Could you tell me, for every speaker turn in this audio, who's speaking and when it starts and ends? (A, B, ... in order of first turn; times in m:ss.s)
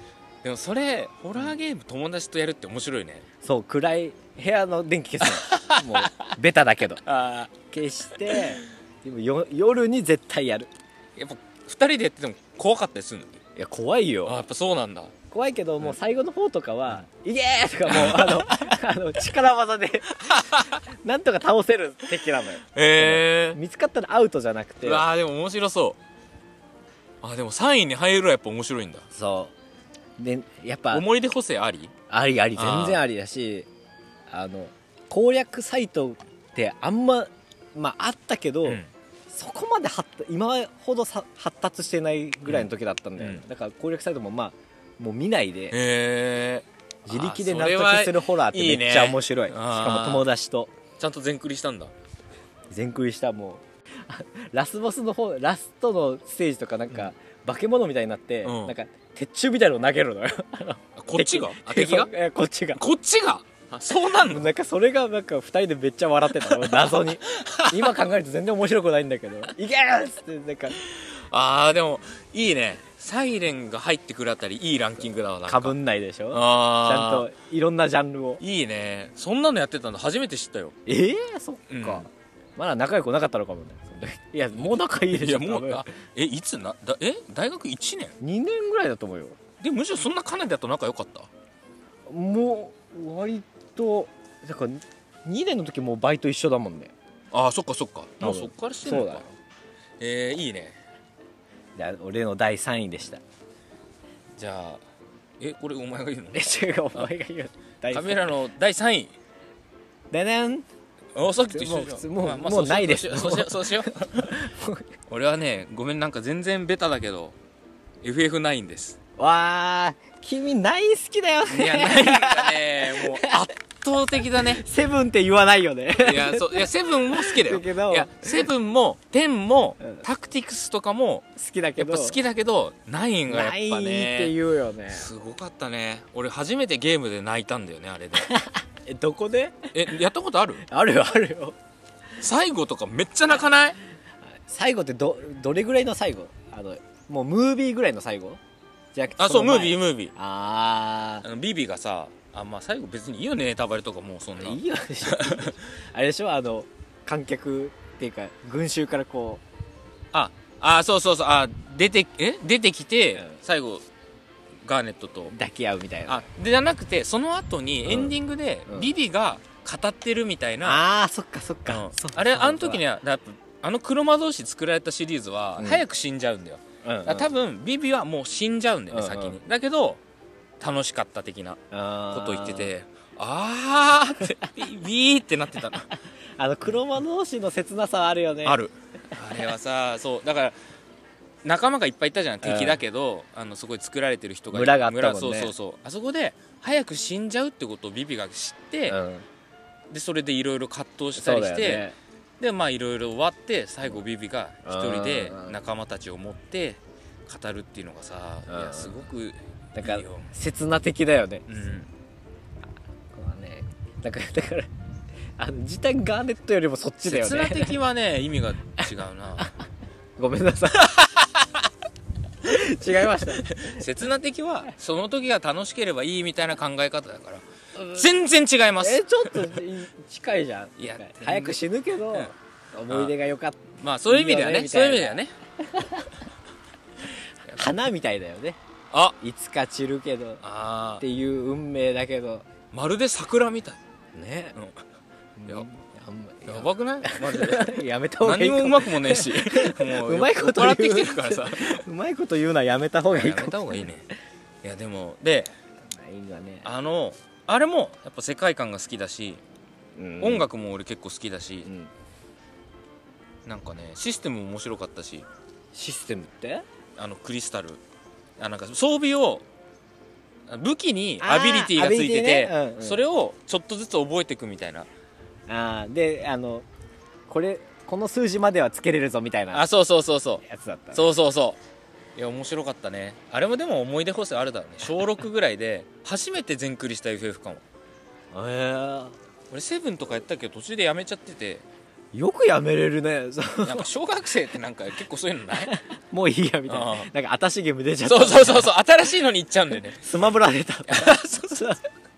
0:00.4-0:03.2 A
0:03.4-0:07.0 B
0:05.2-0:06.3 A
0:07.0-0:07.5 A
0:07.7-0:10.7 B
0:08.2-0:08.5 A
0:11.2-0:13.4 A
0:13.6-0:14.3 B
0:14.2-0:15.1 A
0:15.3-0:25.0 B
0:17.9-0:18.7 A
0:20.1-0:20.8 A
0:22.7-0:23.6 A
0:24.8-0:26.0 A
0:27.2-0:29.0 A
0:29.1-0:29.5 B
0:30.2-0:31.0 B
0:30.9-0:31.9 A
0:32.1-0:33.7 B
0:32.5-0:33.0 A
0:34.3-0:45.8 B
0:38.6-0:38.9 A
0:45.7-0:50.3 A
0:47.0-0:50.7 B
0:51.0-0:51.9 A
0:52.7-1:02.8 B
0:58.4-0:58.7 A
1:01.0-1:02.1 A
1:02.8-1:04.5 A
1:04.2-1:10.8 B
1:06.4-1:08.0 A
1:10.8-1:15.8 A
1:15.5-1:18.4 B
1:16.3-1:17.3 A
1:18.4-1:20.8 A
1:20.8-1:25.8 B
1:21.7-1:22.1 A
1:24.6-1:28.1 A
1:28.2-1:29.4 B
1:29.6-1:31.3 A
1:32.1-1:36.9 B
1:37.3-1:39.2 A
1:38.2-1:39.2 B
1:40.0-1:40.8 A
1:41.8-1:43.2 B
1:44.4-1:44.8 A
1:45.4-1:47.1 A
1:46.3-1:48.3 B
1:47.9-1:49.1 A
1:50.1-1:50.7 B
1:51.1-1:54.4 A
1:51.5-1:54.9 B
1:55.1-1:57.4 A
1:58.0-1:59.0 A
1:59.2-2:03.4 B
2:01.4-2:04.6 A
2:04.3-2:08.4 B
2:06.0-2:14.3 A
2:11.4-2:12.2 B
2:13.3-2:15.1 B
2:14.9-2:18.3 A
2:18.2-2:19.7 B
2:19.7-2:20.6 A
2:20.7-2:21.6 B
2:22.2-2:23.8 A
2:24.4-2:28.4 B
2:28.9-2:31.2 B
2:29.2-2:30.1 A
2:31.2-2:35.7 A
2:34.4-2:39.4 B
2:40.1-2:43.8 A
2:44.6-2:45.3 A
2:45.3-2:46.2 B
2:46.0-2:50.8 A
2:47.9-2:48.1 B
2:50.6-2:52.8 B
2:51.7-3:00.0 A
2:55.6-2:55.8 B
2:56.8-2:57.2 B
2:58.9-2:59.4 B
3:00.6-3:01.6 A
3:01.7-3:02.7 B
3:02.1-3:05.9 A
3:06.4-3:08.6 B
3:08.4-3:10.6 A
3:11.4-3:19.0 A
3:12.4-3:12.8 B
3:14.5-3:15.5 B
3:18.9-3:19.2 B
3:19.9-3:21.8 A
3:21.2-3:21.9 B
3:22.4-3:30.3 A
3:24.6-3:25.6 B
3:28.5-3:29.0 B
3:29.7-3:31.4 B
3:31.5-3:31.9 A
3:33.1-3:34.7 B
3:35.4-3:37.8 B
3:37.0-3:39.5 A
3:40.2-3:41.4 B
3:42.4-3:43.8 B
3:43.4-3:49.6 A
3:48.8-3:56.1 B
3:50.8-3:51.6 A
3:52.9-3:53.1 A
3:53.8-3:55.3 A
3:57.5-3:58.6 B
3:59.2-4:00.4 B
4:00.4-4:01.0 A
4:01.0-4:02.5 B
4:02.7-4:03.8 A
4:04.1-4:04.5 B
4:05.4-4:13.8 B
4:06.4-4:11.8 A
4:13.1-4:14.1 A
4:14.6-4:15.5 A
4:15.9-4:16.7 B
4:16.6-4:19.4 A
4:20.0-4:20.4 B
4:20.2-4:21.7 A
4:21.6-4:21.9 B
4:23.4-4:25.2 A
4:25.7-4:26.6 B
4:27.0-4:27.8 A
4:28.4-4:29.4 A
4:30.5-4:34.9 A
4:31.2-4:33.0 B
4:35.5-4:36.6 B
4:37.3-4:39.6 B
4:39.5-4:41.6 A
4:40.4-4:41.0 B
4:42.2-4:47.6 A
4:48.3-4:49.2 B
4:49.5-4:51.6 A
4:52.1-4:53.9 B
4:53.6-4:55.8 A
4:55.6-4:58.7 B
4:56.7-4:57.1 A
4:58.0-5:00.1 A
5:00.0-5:01.8 B
5:00.9-5:01.8 A